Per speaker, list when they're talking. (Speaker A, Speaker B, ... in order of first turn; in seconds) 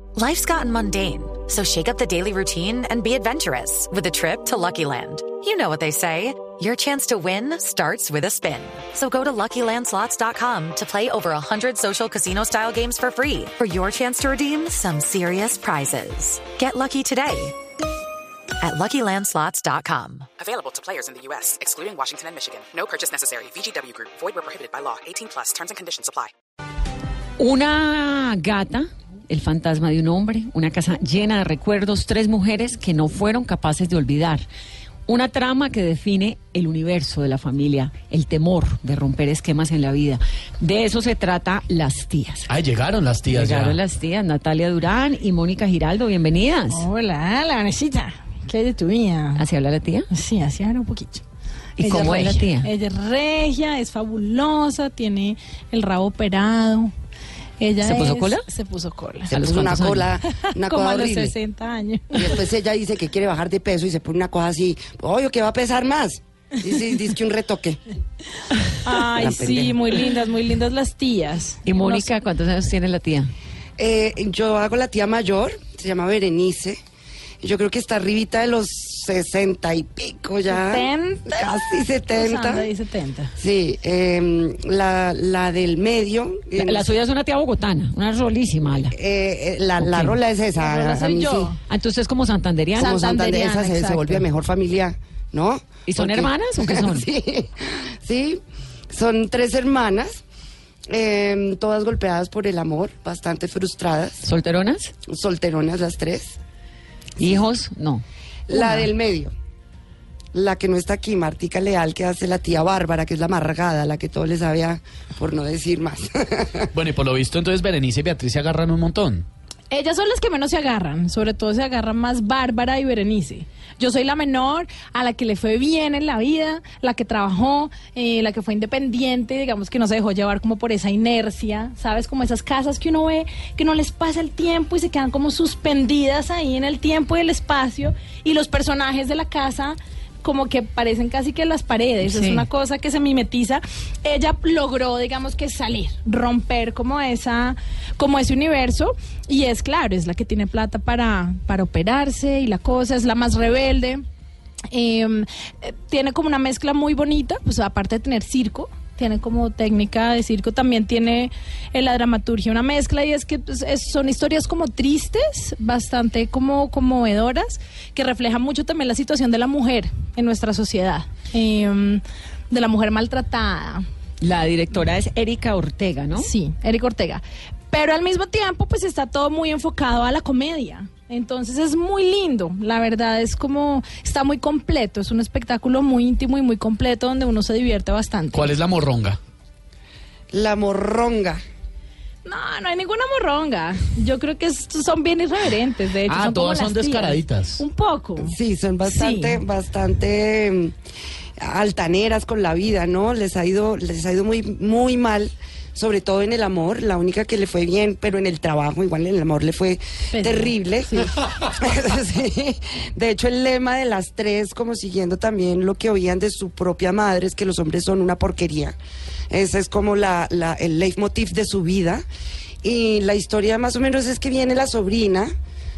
Speaker A: 0.1-17.6, 18.6-20.3
Speaker B: 20.4-26.3
Speaker C: 27.4-34.4, 35.1-42.5, 43.3-46.9, 49.4-50.1, 51.8-52.7, 57.8-58.4, 59.3-60.1, 71.6-73.3, 86.6-88.9, 89.8-90.2, 91.7-93.0, 95.8-97.1, 104.2-104.9, 107.2-108.9, 142.0-142.4, 174.2-176.3
Speaker D: 42.5-43.8, 116.7-119.2, 188.3-189.2, 196.1-197.6
Speaker E: 46.7-49.4, 50.1-51.2, 51.8-56.9, 57.6-59.3, 60.3-62.4, 68.8-72.1, 80.5-81.5, 82.1-83.3, 90.6-91.6, 92.8-94.2, 119.7-154.0, 154.7-173.8, 176.1-188.5, 192.2-199.4, 210.1-210.5
Speaker F: 59.3-61.3, 62.1-67.8, 69.2-69.8, 73.8-76.8, 77.4-82.7, 83.4-86.9, 88.9-91.5, 92.8-100.2, 100.9-104.2, 105.1-106.4, 108.5-109.3, 110.3-116.7, 190.3-191.4, 198.2-200.7, 201.4-218.8, 219.3-222.0, 222.6-225.3